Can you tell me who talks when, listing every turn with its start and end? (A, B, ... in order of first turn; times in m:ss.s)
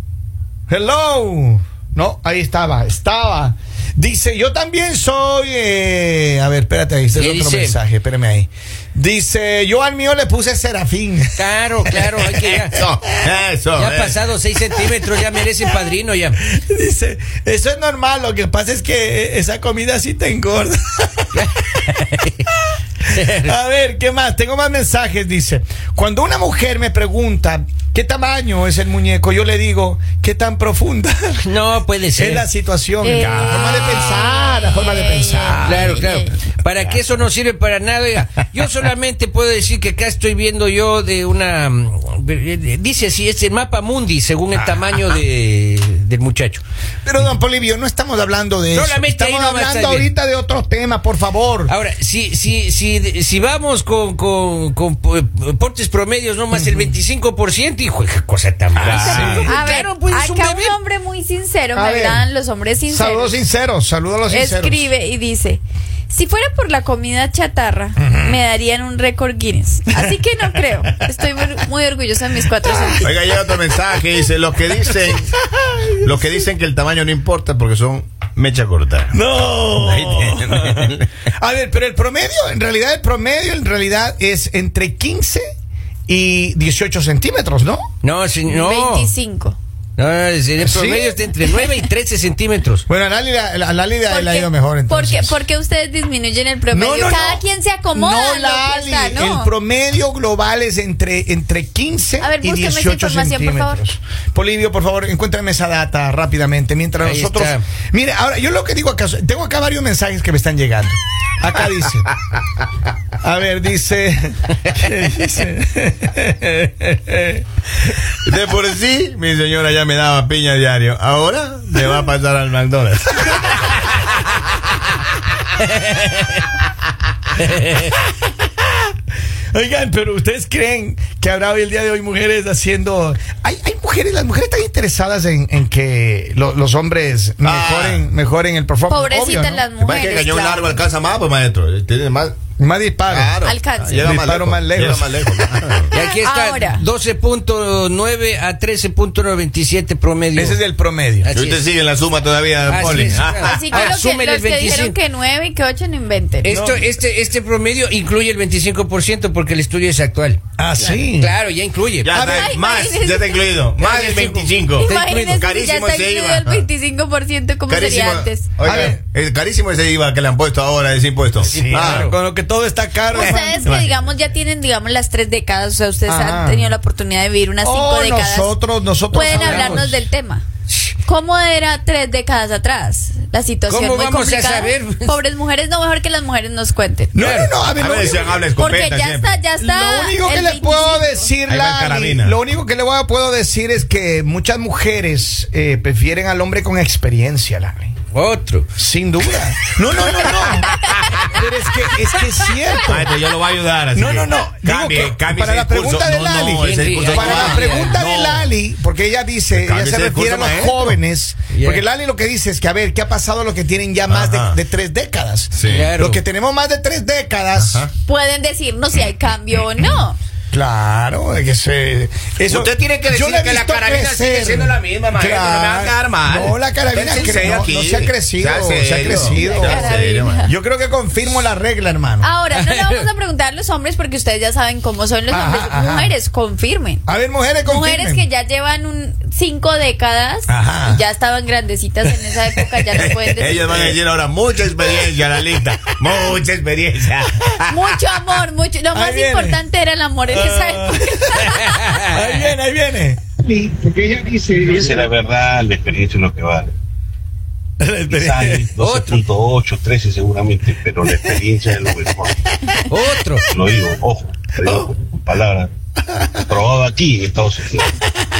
0:00.7-0:12.1 A
0:07.1-0:07.8 B
0:11.4-0:12.8 B
0:12.4-0:14.2 C
0:12.6-0:12.9 A
0:13.7-0:16.4 B
0:16.4-0:21.5 A
0:21.3-0:22.5 B
0:23.1-0:23.5 B
0:23.3-0:31.4 A
0:31.4-0:32.5 B
0:32.2-0:36.0 A
0:33.0-0:36.3 D
0:33.2-0:34.3 C
0:35.6-0:46.6 B
0:44.6-0:44.8 A
0:47.0-0:51.7 A
0:48.7-0:50.1 B
0:51.7-1:00.8 B
0:56.5-0:57.0 A
0:58.8-0:59.5 C
0:59.0-1:03.4 D
0:59.1-0:59.5 A
1:01.8-1:02.3 A
1:02.9-1:04.9 A
1:04.3-1:13.1 D
1:08.0-1:08.4 A
1:12.7-1:13.2 A
1:13.0-1:15.4 C
1:15.1-1:16.4 A
1:16.0-1:19.2 C
1:19.1-1:25.5 A
1:19.8-1:21.1 C
1:26.1-1:27.9 A
1:28.0-1:29.1 B
1:28.4-1:29.6 D
1:30.0-1:32.9 B
1:30.6-1:31.2 A
1:32.9-1:35.4 A
1:34.0-1:39.5 D
1:36.7-1:37.4 A
1:38.0-1:52.1 A
1:42.2-1:43.8 D
1:47.0-1:47.6 B
1:53.2-1:57.4 A
1:58.2-2:04.0 C
2:05.6-2:06.4 B
2:07.4-2:07.9 B
2:09.5-2:19.7 A
2:17.4-2:18.1 C
2:18.9-2:20.8 D
2:19.8-2:22.4 C
2:22.6-2:23.4 A
2:23.1-2:25.9 C
2:23.4-2:24.0 D
2:24.0-2:25.3 A
2:25.9-2:30.6 B
2:26.1-2:26.8 D
2:30.4-2:31.3 A
2:31.2-2:31.6 B
2:31.3-2:34.0 C
2:32.7-2:35.0 B
2:33.4-2:36.6 D
2:36.4-2:40.4 B
2:36.5-2:36.9 A
2:40.6-2:41.4 A
2:41.0-2:42.3 B
2:42.0-2:46.7 C
2:42.1-2:42.6 A
2:42.3-2:43.5 D
2:43.8-2:45.5 B
2:44.7-2:48.5 D
2:47.7-2:52.1 C
2:48.6-2:49.0 A
2:51.4-2:52.2 B
2:51.4-2:53.7 A
2:53.1-2:58.5 D
2:53.6-2:54.1 C
2:56.1-2:56.7 A
2:57.6-3:00.0 A
2:59.1-3:00.4 D
2:59.2-3:00.0 B
3:01.0-3:07.2 D
3:03.7-3:05.2 B
3:07.1-3:08.5 A
3:07.2-3:07.6 B
3:07.7-3:09.4 C
3:08.5-3:11.4 D
3:09.6-3:17.9 A
3:11.5-3:12.4 C
3:18.1-3:18.7 B
3:18.8-3:23.1 A
3:20.0-3:21.3 C
3:20.2-3:21.2 D
3:22.0-3:23.0 D
3:22.8-3:28.6 C
3:23.9-3:37.8 A
3:26.6-3:28.0 B
3:29.5-3:31.0 C
3:31.5-3:31.8 B
3:34.1-3:34.6 C
3:35.5-3:35.9 C
3:35.7-3:36.2 B
3:37.6-3:37.9 C
3:38.0-3:40.2 D
3:40.5-3:52.3 A
3:42.5-3:50.5 C
3:49.2-3:50.5 D
3:52.2-3:57.0 D
3:52.5-3:53.1 B
3:55.3-3:56.2 A
3:57.1-3:58.2 A
3:57.6-4:04.0 D
4:00.5-4:01.0 A
4:02.9-4:08.0 C
4:07.7-4:11.8 D
4:08.9-4:09.6 A
4:10.3-4:15.0 A
4:11.4-4:12.5 B
4:14.6-4:16.7 E
4:17.8-4:18.7 A
4:18.1-4:22.4 E
4:18.8-4:19.2 B
4:22.9-4:23.5 B
4:23.5-4:25.7 E
4:24.6-4:24.9 A
4:26.1-4:26.5 A
4:26.5-4:28.0 E